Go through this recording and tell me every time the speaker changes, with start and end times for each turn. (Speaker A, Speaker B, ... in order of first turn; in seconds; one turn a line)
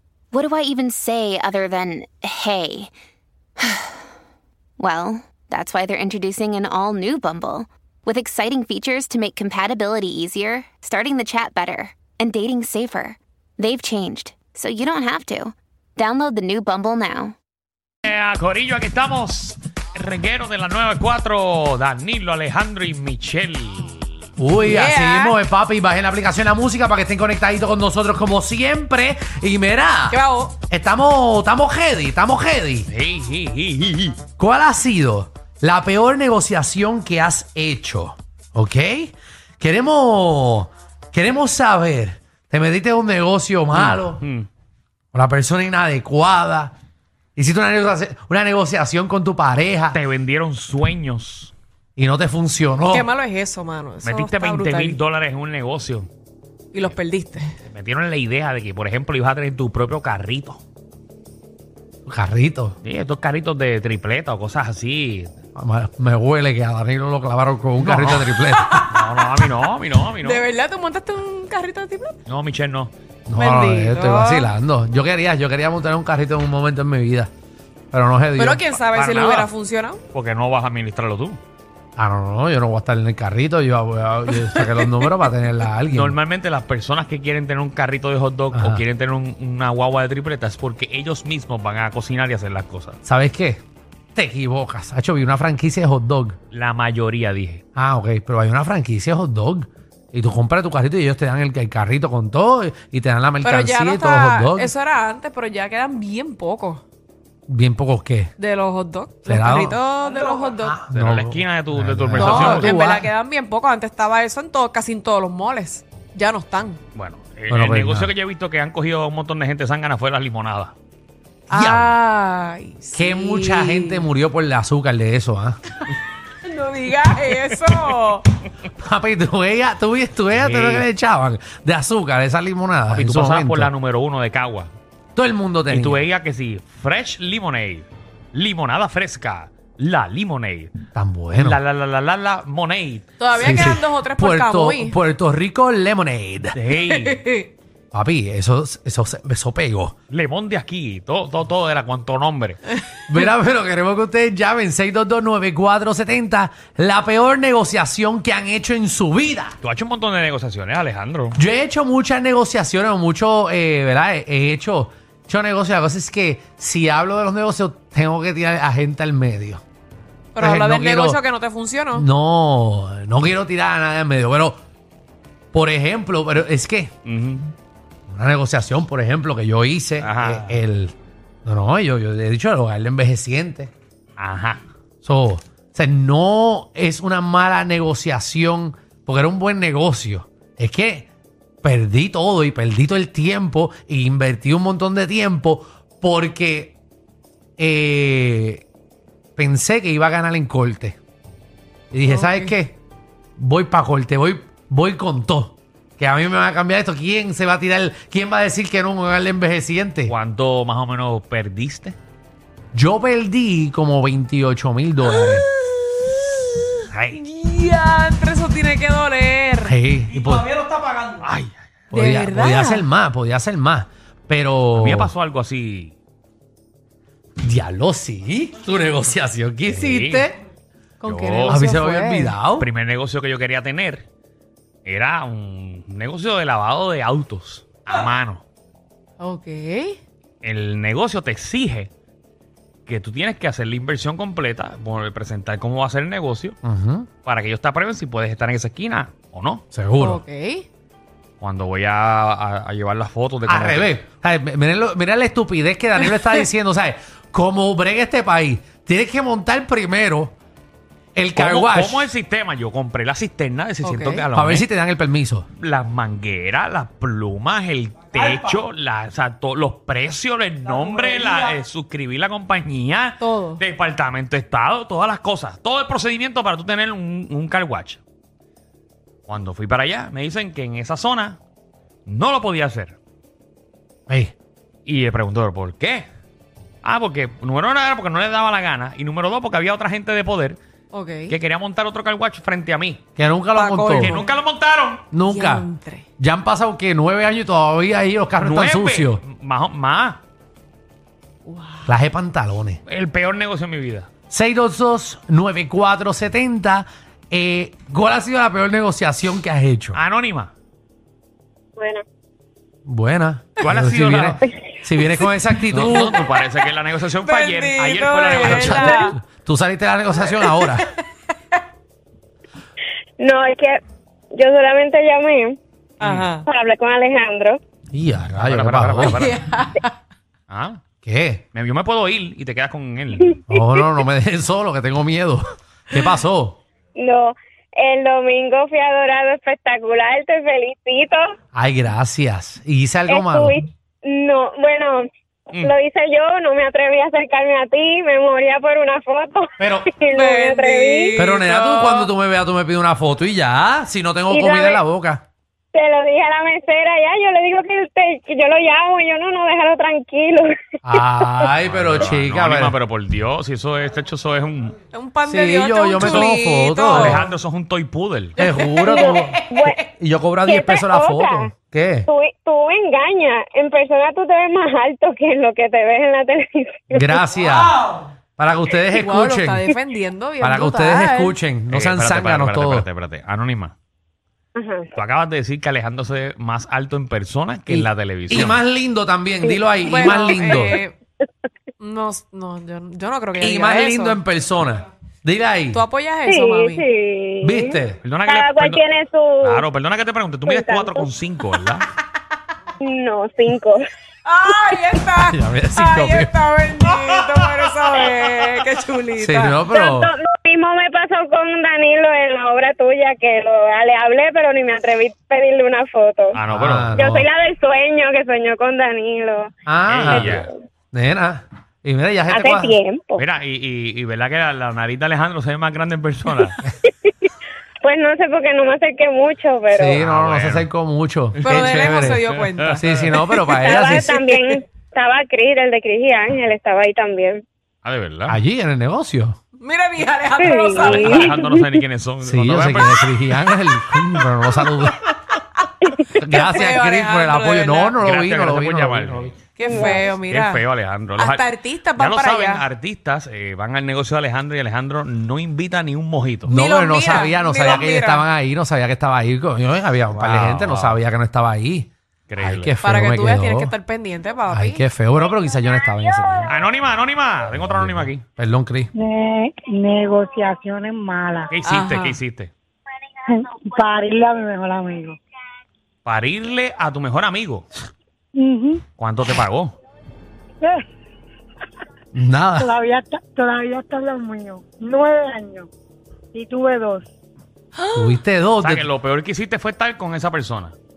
Speaker A: 0.3-2.9
Speaker A: 3.6-4.0
Speaker A: 4.8-17.3
Speaker B: 18.0-24.3
Speaker C: 24.4-32.9
Speaker D: 24.6-25.4
Speaker D: 30.1-30.5
Speaker B: 32.9-34.2
Speaker C: 34.4-44.2
Speaker B: 43.7-44.5
Speaker C: 45.1-46.7
Speaker C: 47.4-50.0
Speaker B: 49.9-51.5
Speaker C: 52.0-53.1
Speaker D: 52.9-55.0
Speaker B: 54.0-56.1
Speaker D: 56.7-57.5
Speaker B: 57.6-60.6
Speaker C: 62.0-62.8
Speaker B: 62.8-65.3
Speaker C: 65.5-68.9
Speaker B: 67.8-68.3
Speaker D: 68.5-69.2
Speaker B: 68.9-70.4
Speaker D: 70.2-72.2
Speaker B: 72.2-72.9
Speaker C: 73.3-77.3
Speaker D: 73.3-74.5
Speaker C: 77.9-78.7
Speaker D: 78.3-80.0
Speaker B: 78.9-79.5
Speaker B: 80.1-81.4
Speaker C: 82.0-86.2
Speaker D: 84.3-85.3
Speaker B: 85.9-93.0
Speaker C: 88.5-88.8
Speaker C: 93.0-93.6
Speaker C: 94.1-96.3
Speaker B: 96.5-97.6
Speaker C: 97.8-104.7
Speaker D: 103.4-106.8
Speaker C: 107.5-108.3
Speaker D: 108.4-110.8
Speaker C: 109.2-109.8
Speaker C: 110.6-113.1
Speaker B: 110.9-112.7
Speaker D: 112.1-116.8
Speaker B: 116.9-120.7
Speaker C: 117.5-118.1
Speaker D: 121.5-124.0
Speaker C: 121.5-122.0
Speaker C: 122.9-125.6
Speaker D: 126.3-128.2
Speaker C: 128.8-133.7
Speaker B: 130.3-130.8
Speaker B: 132.9-134.7
Speaker C: 135.1-136.0
Speaker B: 135.7-140.8
Speaker C: 140.9-141.6
Speaker B: 141.3-143.7
Speaker D: 143.2-145.0
Speaker C: 143.3-146.6
Speaker B: 146.5-147.2
Speaker D: 146.9-147.5
Speaker C: 147.9-149.9
Speaker B: 150.1-152.6
Speaker C: 153.1-159.6
Speaker B: 159.6-161.4
Speaker C: 161.3-169.6
Speaker D: 170.3-172.1
Speaker C: 170.4-171.2
Speaker C: 171.9-174.6
Speaker C: 175.5-176.9
Speaker B: 177.1-177.5
Speaker C: 178.1-180.9
Speaker B: 180.0-180.6
Speaker C: 181.4-183.7
Speaker B: 184.2-184.6
Speaker C: 185.0-191.1
Speaker C: 191.6-196.8
Speaker C: 197.6-198.6
Speaker C: 199.4-201.0
Speaker C: 201.9-202.8
Speaker D: 202.1-202.5
Speaker C: 203.4-210.1
Speaker B: 210.1-212.0
Speaker C: 212.7-215.4
Speaker D: 215.1-216.6
Speaker B: 216.9-217.2
Speaker D: 217.1-219.8
Speaker C: 219.6-220.5
Speaker B: 221.2-221.7
Speaker C: 221.9-225.1
Speaker D: 221.9-222.9
Speaker B: 224.7-225.9
Speaker C: 227.4-230.3
Speaker B: 229.7-230.3
Speaker D: 231.0-232.3
Speaker B: 231.0-231.6
Speaker C: 231.5-232.7
Speaker B: 232.6-234.0
Speaker B: 234.8-238.4
Speaker D: 239.2-240.0
Speaker B: 240.4-241.9
Speaker B: 242.9-246.6
Speaker C: 246.6-247.1
Speaker B: 247.2-249.6
Speaker C: 249.7-250.2
Speaker D: 250.0-250.7
Speaker B: 251.4-254.0
Speaker C: 253.4-260.3
Speaker C: 261.1-262.1
Speaker B: 261.4-264.7
Speaker D: 263.8-264.2
Speaker C: 264.3-265.5
Speaker B: 265.5-278.0
Speaker D: 273.2-273.6
Speaker B: 279.3-281.4
Speaker B: 282.1-283.0
Speaker C: 284.1-284.3
Speaker B: 284.9-286.1
Speaker B: 286.8-290.6
Speaker D: 290.9-291.4
Speaker B: 291.3-293.0
Speaker C: 293.2-294.2
Speaker D: 293.5-294.3
Speaker B: 294.0-295.0
Speaker C: 295.1-295.7
Speaker D: 295.3-296.1
Speaker C: 296.2-299.2
Speaker B: 298.4-300.2
Speaker D: 301.4-301.9
Speaker C: 301.9-302.8
Speaker B: 302.9-304.1
Speaker C: 304.3-310.0
Speaker B: 309.9-310.5
Speaker E: 311.8-312.0
Speaker C: 312.9-316.2
Speaker B: 313.6-314.4
Speaker B: 315.7-319.0
Speaker D: 317.2-319.1
Speaker C: 318.4-320.9
Speaker D: 320.4-320.9
Speaker E: 323.2-323.8
Speaker E: 324.3-325.6
Speaker B: 326.0-326.3
Speaker D: 326.0-326.4
Speaker E: 326.4-327.6
Speaker C: 327.9-329.3
Speaker B: 328.4-329.4
Speaker D: 329.0-329.9
Speaker B: 330.5-330.8
Speaker C: 331.0-331.4
Speaker B: 331.5-333.3
Speaker C: 333.5-336.6
Speaker E: 336.9-341.2
Speaker C: 341.5-343.6
Speaker E: 343.1-345.0
Speaker E: 345.5-351.1
Speaker C: 349.6-349.9
Speaker D: 350.1-352.1
Speaker C: 351.2-355.2
Speaker E: 354.3-354.8
Speaker E: 355.7-361.4
Speaker C: 360.9-362.8
Speaker B: 361.6-364.8
Speaker D: 364.9-367.2
Speaker C: 365.2-367.3
Speaker B: 366.0-366.3
Speaker B: 366.9-368.4
Speaker D: 368.4-369.7
Speaker C: 368.4-372.1
Speaker E: 368.9-369.8
Speaker E: 370.5-371.5
Speaker E: 372.1-377.1
Speaker C: 376.9-377.8
Speaker C: 378.4-379.7
Speaker D: 378.9-381.4
Speaker C: 380.4-382.9
Speaker B: 381.7-383.7
Speaker E: 384.6-384.9
Speaker B: 384.9-388.6
Speaker C: 387.7-390.8
Speaker E: 389.4-390.4
Speaker D: 389.8-391.0
Speaker D: 391.8-394.2
Speaker C: 393.4-395.8
Speaker D: 395.7-396.9
Speaker E: 396.2-399.7
Speaker C: 397.4-398.0
Speaker B: 398.0-398.8
Speaker B: 399.4-401.9
Speaker E: 400.5-401.1
Speaker E: 402.8-403.8
Speaker D: 404.2-409.6
Speaker C: 405.1-406.3
Speaker C: 409.2-410.1
Speaker E: 409.7-416.4
Speaker B: 416.3-416.9
Speaker C: 416.5-417.3
Speaker E: 416.9-419.5
Speaker C: 419.7-422.8
Speaker B: 419.9-420.5
Speaker E: 420.1-420.5
Speaker E: 422.3-423.2
Speaker B: 423.2-426.6
Speaker E: 426.8-430.0
Speaker C: 429.7-434.2
Speaker B: 429.9-430.7
Speaker D: 431.4-432.8
Speaker B: 432.3-433.1
Speaker E: 433.5-437.4
Speaker B: 437.8-438.4
Speaker C: 438.3-439.4
Speaker D: 439.6-441.4
Speaker E: 440.4-441.5
Speaker B: 441.1-443.1
Speaker C: 442.2-445.0
Speaker E: 445.8-446.4
Speaker C: 446.2-449.3
Speaker D: 446.3-448.0
Speaker B: 448.0-449.6
Speaker D: 449.5-450.6
Speaker E: 449.6-450.1
Speaker B: 450.1-456.5
Speaker D: 451.1-452.6
Speaker D: 456.5-458.3
Speaker C: 456.5-463.7
Speaker B: 460.1-461.0
Speaker B: 462.3-462.7
Speaker D: 462.8-464.8
Speaker C: 464.5-466.5
Speaker B: 466.5-468.2
Speaker C: 467.6-468.9
Speaker F: 468.9-471.5
Speaker B: 471.5-472.5
Speaker D: 471.6-472.2
Speaker F: 473.3-475.2
Speaker B: 476.0-477.6
Speaker F: 478.4-478.8
Speaker B: 479.0-479.8
Speaker C: 482.1-482.7
Speaker F: 482.6-485.7
Speaker F: 486.3-487.1
Speaker C: 487.9-488.9
Speaker B: 488.6-490.7